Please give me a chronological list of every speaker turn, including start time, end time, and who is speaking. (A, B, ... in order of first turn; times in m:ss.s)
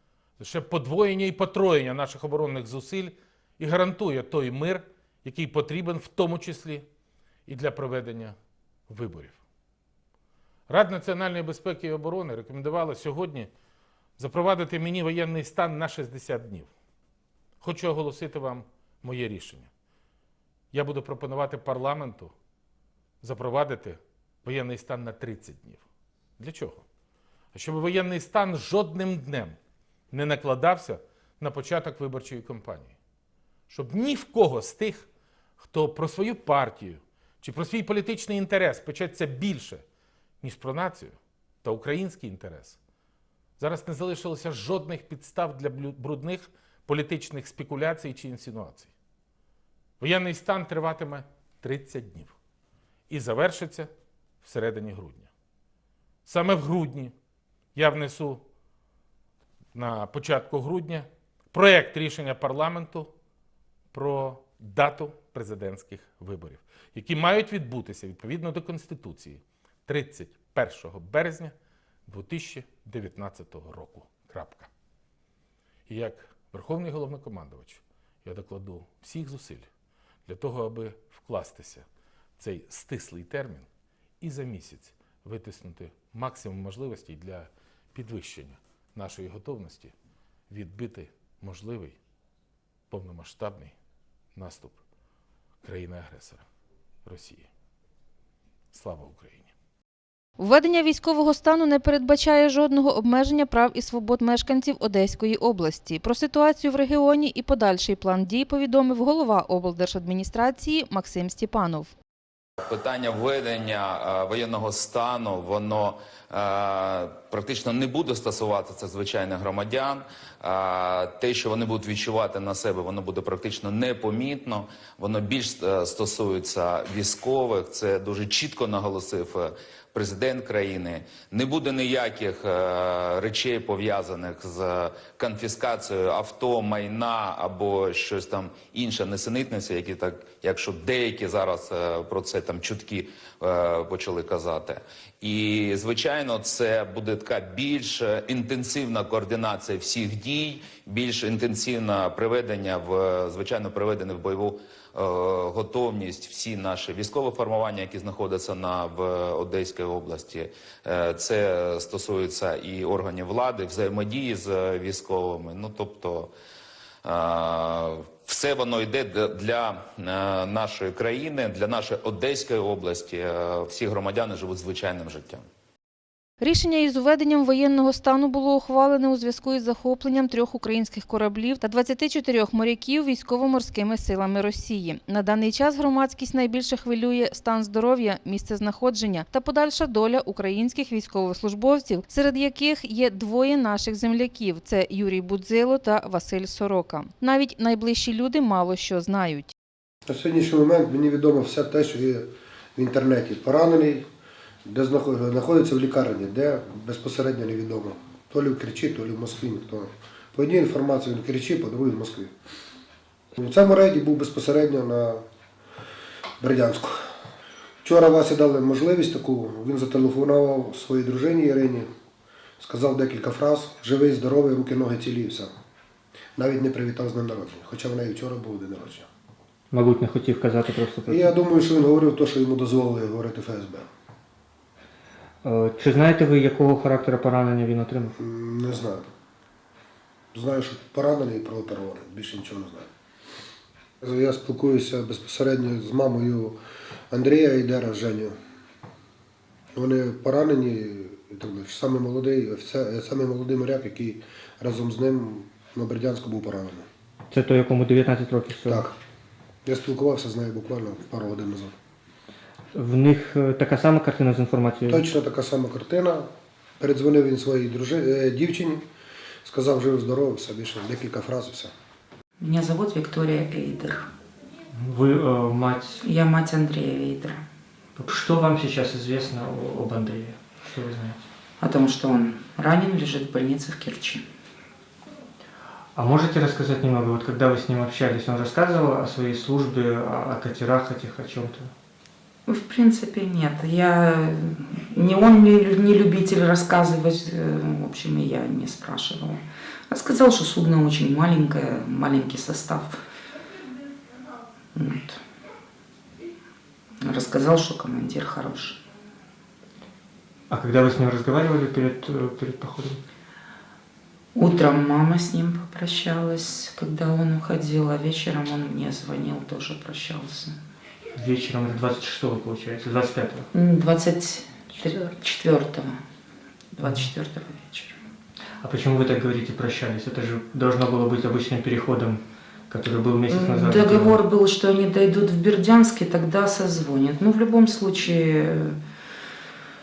0:00.4-0:06.9 A
0:07.5-0:08.4 A
0:08.9-0:09.4 A
0:10.7-0:13.5 A
0:14.2-0:16.7 A
0:17.6-0:19.7 A
0:20.7-0:22.3 A
0:23.2-0:25.8 A
0:26.4-0:26.8 A
0:27.5-0:29.6 A
0:30.1-0:33.0 A
0:33.7-0:35.1 A
0:35.6-0:39.8 A
0:40.4-0:42.8 A
0:43.6-0:48.9 A
0:50.0-0:52.4 A
0:53.1-0:53.9 A
0:54.4-0:55.3 A
0:56.3-0:57.1 A
0:57.8-0:58.4 A
0:59.7-1:03.1 A
1:03.9-1:11.5 A
1:12.1-1:14.7 A
1:15.9-1:19.7 A
1:20.3-1:21.9 A
1:22.4-1:23.7 A
1:24.2-1:29.9 A
1:30.5-1:32.0 A
1:32.9-1:33.8 A
1:34.4-1:34.8 A
1:35.6-1:36.4 A
1:37.1-1:37.5 A
1:38.7-1:39.5 A
1:40.4-1:51.9 B
1:52.6-2:46.3 C
2:47.0-2:55.5 C
2:56.4-3:19.5 B
3:20.1-3:24.0 D
3:24.7-3:32.3 D
3:33.4-3:35.2 D
3:36.4-3:37.1 D
3:37.8-3:41.9 D
3:42.6-3:45.5 D
3:46.4-3:49.1 D
3:49.7-3:51.4 E
3:51.1-3:53.9 D
3:55.4-3:58.1 E
3:58.2-3:59.1 D
4:00.3-4:02.9 D
4:04.0-4:06.6 D
4:07.1-4:08.4 D
4:09.8-4:16.9 D
4:17.3-4:18.9 E
4:18.6-4:19.0 D
4:19.6-4:21.7 D
4:22.7-4:25.0 E
4:24.9-4:26.3 D
4:26.8-4:28.8 D
4:29.4-4:31.7 D
4:32.4-4:34.1 F
4:34.8-4:36.0 E
4:36.0-4:37.4 F
4:38.0-4:41.2 E
4:41.6-4:44.2 F
4:46.0-4:51.7 E
4:52.5-5:03.0 F
5:04.8-5:05.2 F
5:07.0-5:08.8 F
5:10.5-5:13.0 E
5:14.4-5:20.6 F
5:21.1-5:23.5 E
5:23.5-5:26.0 F
5:26.8-5:28.0 F
5:26.8-5:27.1 E
5:28.6-5:34.2 E
5:33.3-5:38.8 F